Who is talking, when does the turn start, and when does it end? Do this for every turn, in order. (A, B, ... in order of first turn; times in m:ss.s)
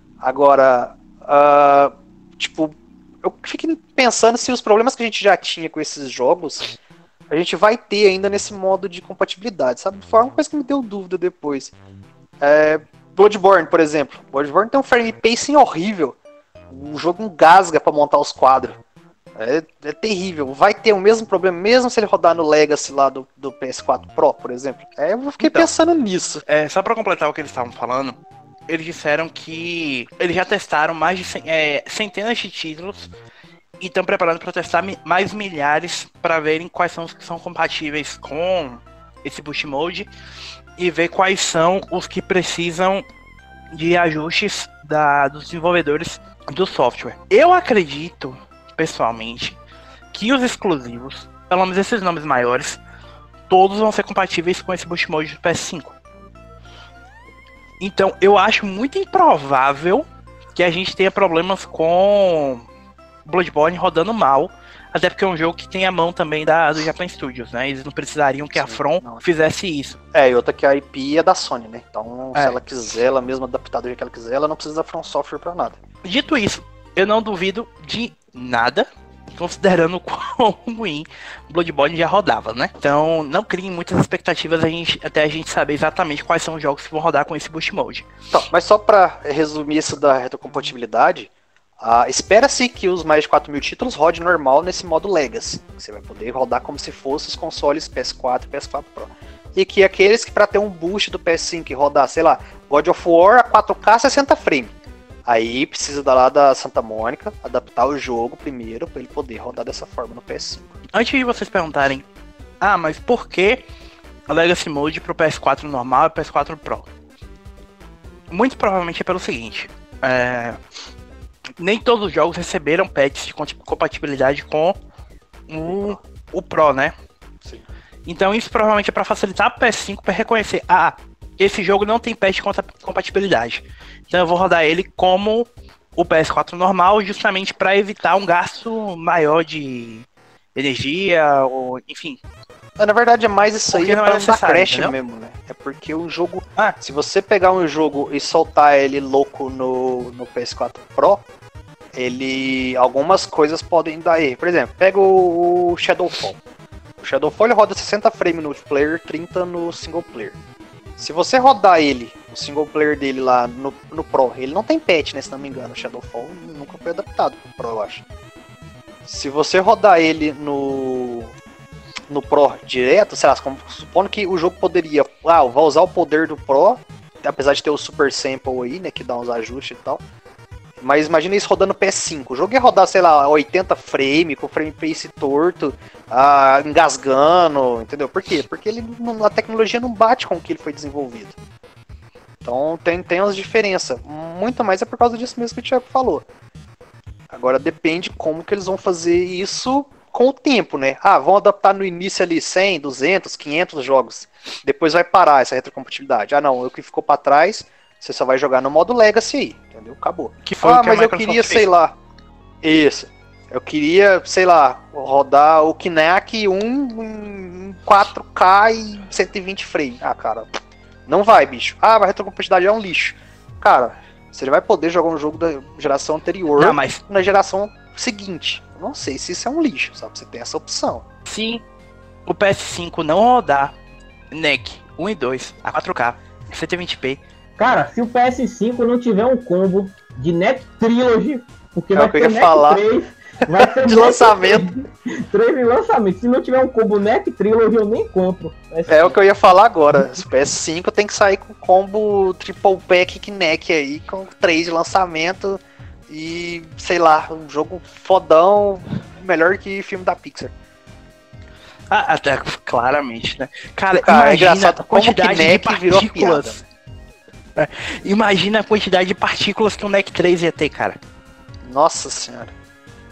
0:00.2-0:06.8 A
0:07.3-0:11.7 A
0:12.4-0:16.2 A
0:16.7-0:18.8 A
0:19.3-0:26.4 A
0:25.4-0:25.7 B
0:26.4-0:28.2 B
0:28.7-0:33.1 B
0:33.8-0:40.1 B
0:40.8-0:43.0 B
0:43.7-0:49.6 B
0:50.1-0:52.8 B
0:53.5-0:56.0 B
0:57.8-1:02.6 B
1:03.2-1:10.0 B
1:08.6-1:09.2 A
1:10.1-1:15.8 A
1:16.0-1:28.1 B
1:28.3-1:44.7 A
1:45.2-1:50.8 A
1:50.9-1:52.0 B
1:52.6-1:53.6 B
1:54.3-1:56.9 B
1:58.3-2:00.6 B
2:01.6-2:04.8 B
2:05.5-2:06.9 B
2:05.6-2:06.0 A
2:08.0-2:22.2 B
2:22.8-2:31.2 A
2:23.7-2:24.9 B
2:32.0-2:36.4 A
2:37.0-2:40.4 A
2:41.0-2:48.0 A
2:49.0-2:51.3 A
2:52.1-3:00.0 A
3:00.8-3:11.4 A
3:12.4-3:16.2 A
3:17.3-3:32.0 A
3:30.4-3:31.7 B
3:32.6-3:40.5 A
3:41.1-3:51.0 A
3:46.6-3:47.0 B
3:51.3-3:51.6 B
3:52.2-3:53.7 B
3:54.3-3:57.2 B
3:57.6-4:09.2 C
4:01.9-4:02.8 A
4:03.6-4:04.6 A
4:08.9-4:20.5 A
4:21.9-4:26.6 B
4:24.0-4:26.6 A
4:27.6-4:31.0 B
4:31.6-4:32.5 A